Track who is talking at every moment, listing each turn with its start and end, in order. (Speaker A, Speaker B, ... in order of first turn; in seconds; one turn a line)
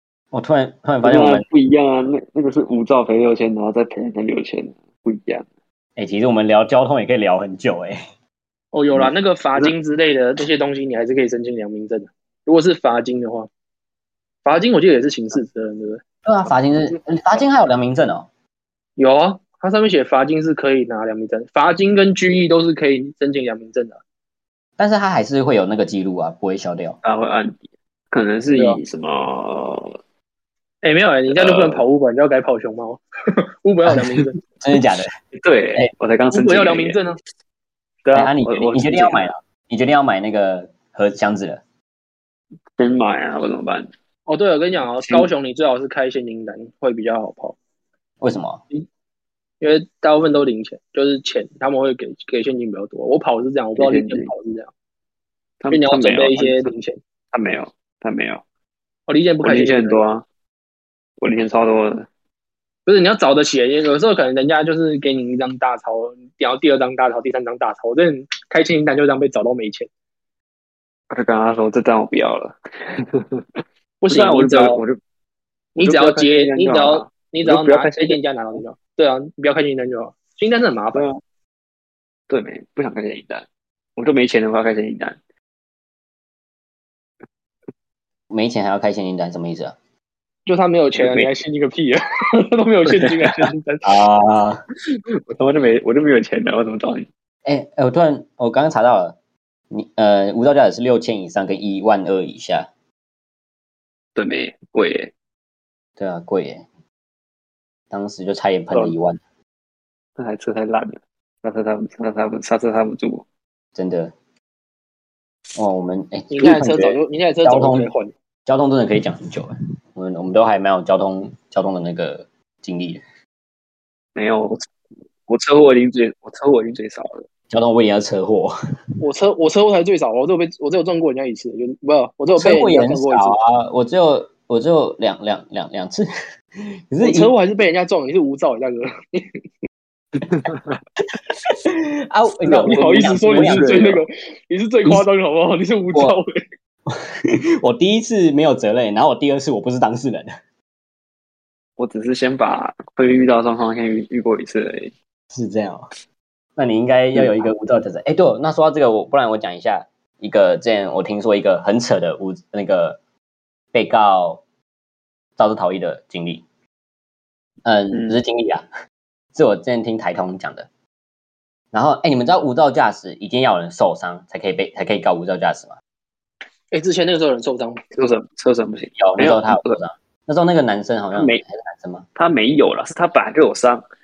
Speaker A: 0.3-1.5
Speaker B: 1.0-5.5
Speaker A: 6.0-8.0
Speaker C: 8.7-13.5
Speaker C: 14.4-16.0
Speaker A: 16.2-18.3
Speaker C: 19.0-24.0
Speaker A: 24.8-27.0
Speaker B: 27.0-30.0
Speaker C: 28.6-28.8
Speaker C: 30.8-33.0
Speaker B: 31.3-31.8
Speaker C: 33.6-34.4
Speaker A: 33.9-35.1
Speaker B: 35.3-37.0
Speaker C: 36.3-37.2
Speaker B: 38.1-39.3
Speaker A: 38.1-41.6
Speaker B: 42.8-43.9
Speaker C: 44.3-47.6
Speaker B: 45.0-45.3
Speaker A: 48.2-48.6
Speaker C: 49.6-54.7
Speaker B: 53.8-54.3
Speaker B: 55.6-56.7
Speaker C: 55.7-57.0
Speaker B: 57.3-58.4
Speaker C: 59.1-60.0
Speaker B: 59.4-60.2
Speaker B: 61.2-62.1
Speaker C: 62.9-69.9
Speaker B: 71.1-75.0
Speaker C: 74.0-74.8
Speaker B: 75.8-78.6
Speaker C: 75.8-81.1
Speaker B: 80.9-81.2
Speaker B: 82.3-85.2
Speaker A: 88.3-89.8
Speaker C: 90.5-93.9
Speaker B: 90.9-91.3
Speaker B: 92.9-93.5
Speaker A: 93.8-94.6
Speaker B: 95.3-97.1
Speaker A: 97.5-99.2
Speaker A: 99.7-102.7
Speaker B: 104.2-105.1
Speaker A: 106.0-106.7
Speaker A: 107.9-109.2
Speaker B: 110.2-113.2
Speaker A: 113.8-114.1
Speaker A: 115.6-117.9
Speaker C: 116.3-118.1
Speaker A: 118.5-123.0
Speaker B: 124.2-124.7
Speaker B: 125.3-127.3
Speaker A: 127.5-128.6
Speaker C: 129.0-133.3
Speaker A: 132.4-136.1
Speaker A: 136.9-137.3
Speaker C: 137.0-139.3
Speaker B: 140.3-140.8
Speaker A: 141.7-144.0
Speaker C: 142.5-146.4
Speaker B: 143.1-144.0
Speaker A: 146.9-150.3
Speaker B: 151.8-154.9
Speaker A: 155.3-155.9
Speaker A: 156.6-163.0
Speaker B: 157.2-157.4
Speaker A: 163.7-164.4
Speaker A: 165.4-166.4
Speaker A: 167.7-168.7
Speaker B: 167.9-168.2
Speaker A: 169.3-170.7
Speaker A: 171.7-175.8
Speaker C: 176.7-177.8
Speaker B: 177.9-179.8
Speaker A: 179.0-182.1
Speaker B: 181.2-181.4
Speaker B: 182.2-183.8